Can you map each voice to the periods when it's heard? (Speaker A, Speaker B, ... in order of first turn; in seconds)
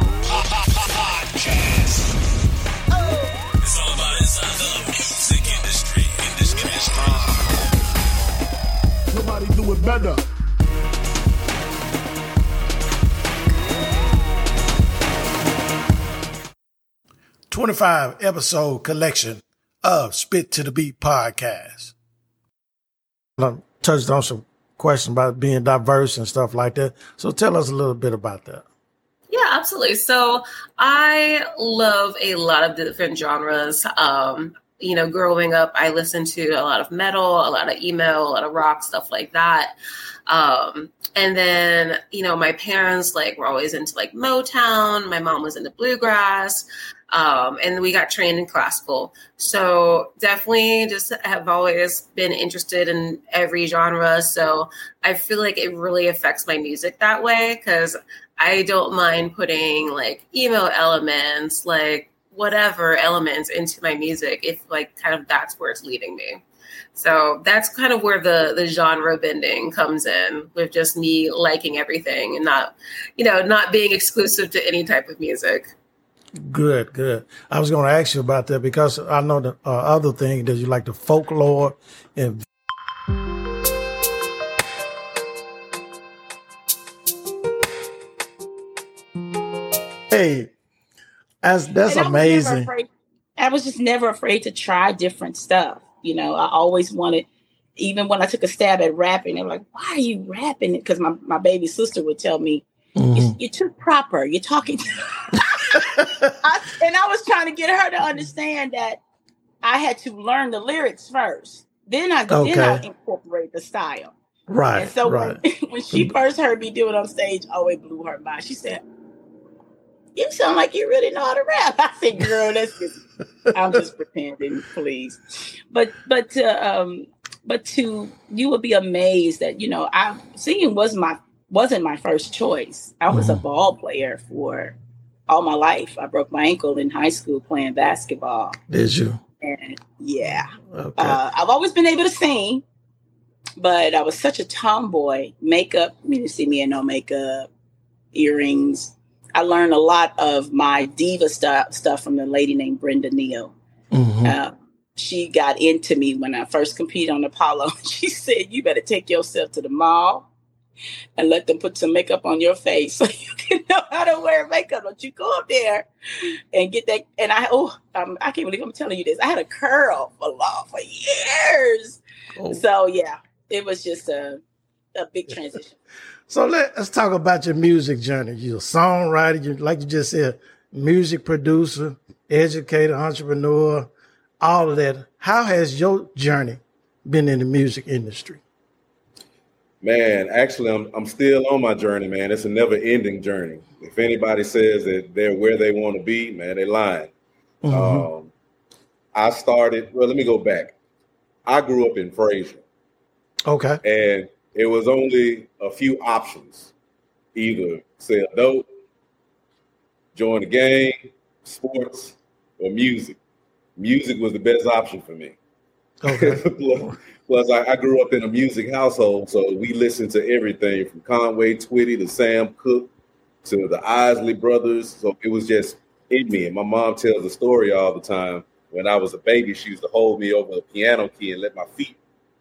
Speaker A: 3.6-7.3
Speaker B: 17.5-21.9, 23.4-28.6, 76.4-82.4, 90.1-90.5, 91.4-92.7, 103.0-103.3, 106.0-106.3, 112.3-112.8, 114.5-115.4, 133.1-133.4, 138.7-139.2, 140.2-141.2, 153.9-154.4, 172.4-172.6, 176.3-183.9, 184.4-188.4, 197.6-198.1, 203.4-203.8, 216.0-216.9
Speaker C: 29.3-39.7, 40.3-66.4, 66.9-75.7
Speaker D: 91.8-102.6, 103.1-105.4, 106.4-109.0, 109.6-114.1, 114.7-118.8, 120.2-123.0, 123.5-125.2, 125.7-134.8, 135.3-138.6, 139.4-142.6, 143.6-147.5, 148.1-153.5, 154.2-160.3, 161.2-165.9, 166.5-174.4, 174.9-175.8
Speaker E: 189.8-197.1, 197.7-198.3, 199.1-200.7, 201.4-202.6, 203.8-206.7, 207.3-208.7, 210.1-213.2, 213.8-215.4, 216.1-222.9, 223.4-232.0